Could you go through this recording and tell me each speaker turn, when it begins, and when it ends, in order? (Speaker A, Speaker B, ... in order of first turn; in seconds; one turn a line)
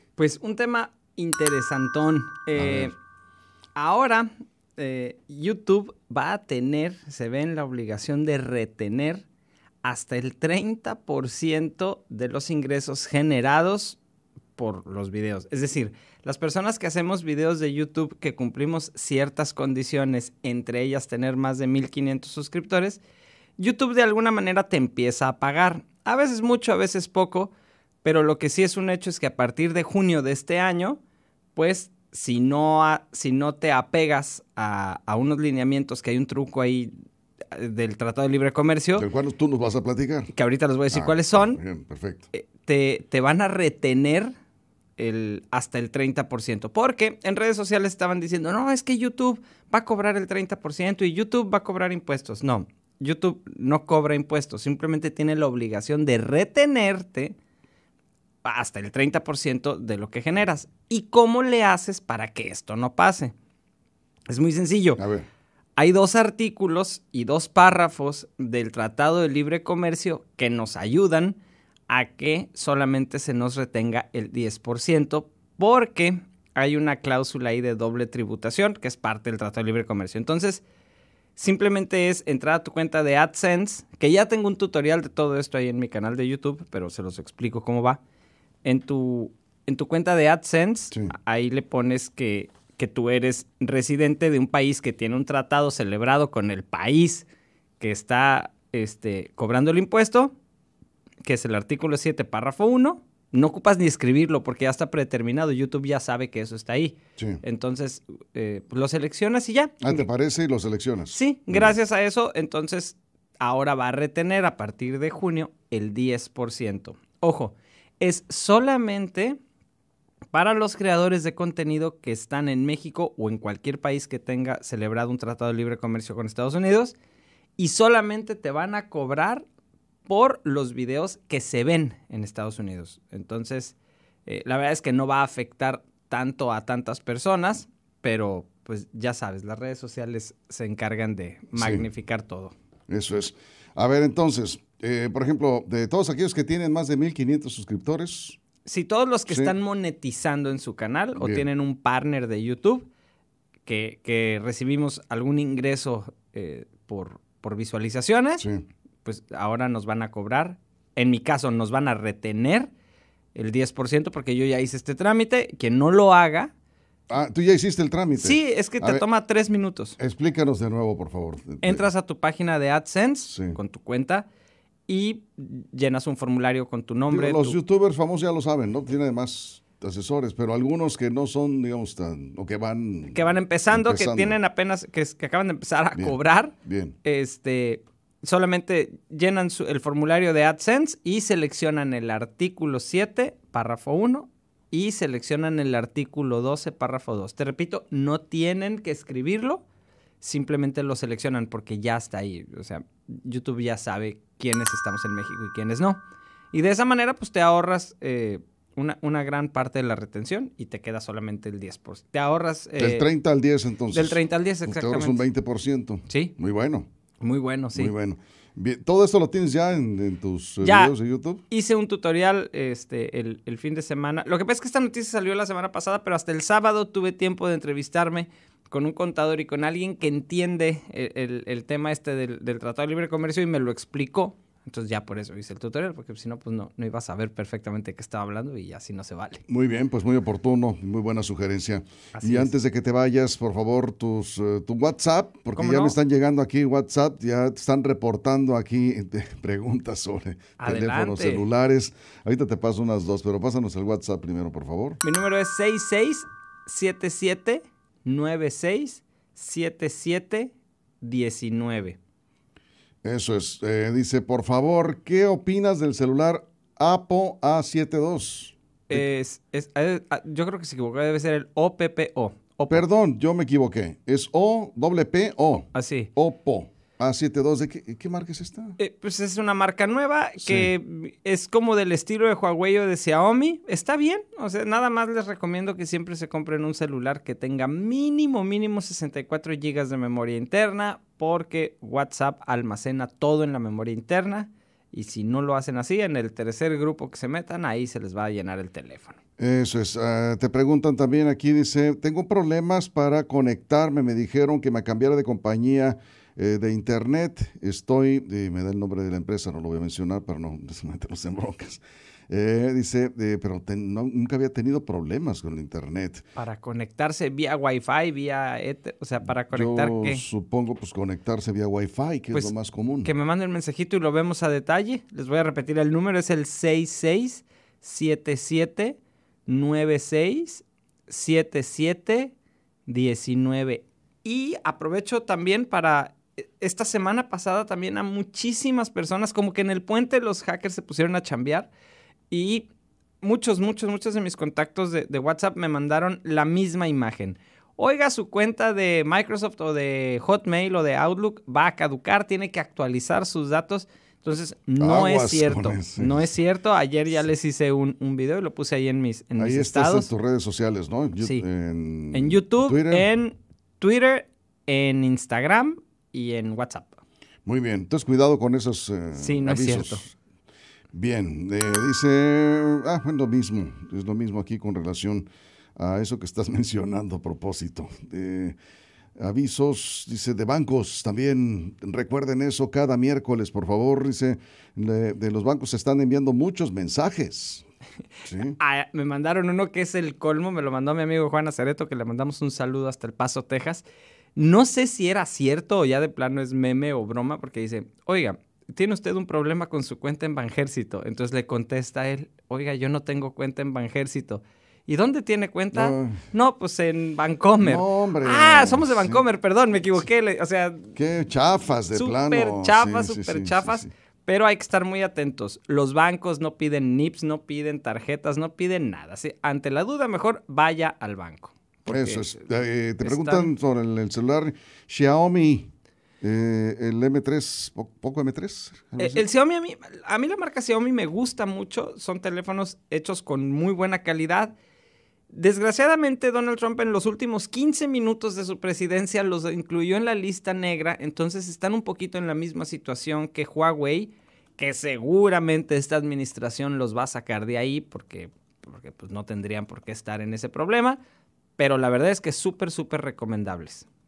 Speaker A: 0.2-2.9
Speaker B: 2.6-2.9
Speaker A: 3.8-9.3
Speaker A: 9.8-14.0
Speaker A: 14.6-23.0
Speaker A: 23.6-27.5
Speaker A: 28.0-31.0
Speaker A: 31.6-36.9
Speaker A: 37.5-39.1
Speaker B: 39.0-40.3
Speaker A: 40.3-41.6
Speaker B: 40.9-42.3
Speaker A: 42.3-44.3
Speaker A: 45.0-57.4
Speaker A: 58.4-63.3
Speaker A: 64.3-65.0
Speaker B: 65.0-65.3
Speaker A: 65.8-71.4
Speaker A: 71.9-80.6
Speaker A: 81.4-88.0
Speaker A: 88.6-97.3
Speaker A: 97.8-100.3
Speaker A: 101.2-110.1
Speaker B: 109.8-111.7
Speaker A: 111.1-119.4
Speaker A: 120.3-127.0
Speaker A: 127.6-129.4
Speaker A: 130.1-133.8
Speaker A: 134.3-142.5
Speaker B: 141.5-141.9
Speaker B: 142.9-148.4
Speaker A: 148.7-152.9
Speaker B: 149.3-149.5
Speaker B: 151.2-151.4
Speaker A: 153.7-158.4
Speaker A: 159.0-162.7
Speaker A: 163.3-166.5
Speaker B: 167.1-169.1
Speaker A: 168.2-170.0
Speaker B: 170.0-171.8
Speaker A: 171.6-174.3
Speaker B: 173.3-173.6
Speaker A: 174.9-177.6
Speaker B: 177.1-184.4
Speaker A: 183.1-199.6
Speaker B: 185.9-187.0
Speaker A: 200.2-206.0
Speaker A: 206.5-213.1
Speaker B: 212.8-216.9
Speaker A: 213.9-215.2
Speaker A: 216.1-216.3
Speaker A: 217.2-217.9
Speaker B: 217.8-221.4
Speaker A: 220.6-220.9
Speaker A: 221.5-239.4
Speaker B: 239.5-255.0
Speaker A: 242.1-242.5
Speaker A: 245.6-246.0
Speaker A: 250.6-251.5
Speaker A: 255.0-262.0
Speaker B: 263.0-269.0
Speaker A: 268.9-272.8
Speaker B: 272.7-278.8
Speaker A: 275.7-276.1
Speaker A: 278.8-299.2
Speaker B: 280.4-280.7
Speaker B: 299.4-316.3
Speaker A: 316.4-320.2
Speaker B: 319.5-323.1
Speaker A: 323.0-332.3
Speaker A: 332.9-341.7
Speaker A: 342.3-342.7
Speaker A: 343.2-360.1
Speaker B: 354.8-356.2
Speaker B: 359.4-363.1
Speaker A: 361.2-361.5
Speaker A: 362.1-367.0
Speaker B: 367.5-370.1
Speaker A: 369.2-370.0
Speaker B: 370.9-378.6
Speaker B: 379.2-387.6
Speaker B: 388.3-388.6
Speaker A: 388.6-393.8
Speaker A: 394.4-410.9
Speaker B: 405.7-406.3
Speaker B: 407.6-409.2
Speaker B: 410.9-413.9
Speaker A: 411.9-422.4
Speaker B: 421.9-425.7
Speaker A: 423.0-423.5
Speaker B: 426.2-429.2
Speaker A: 429.0-434.6
Speaker A: 435.3-451.0
Speaker A: 451.6-453.9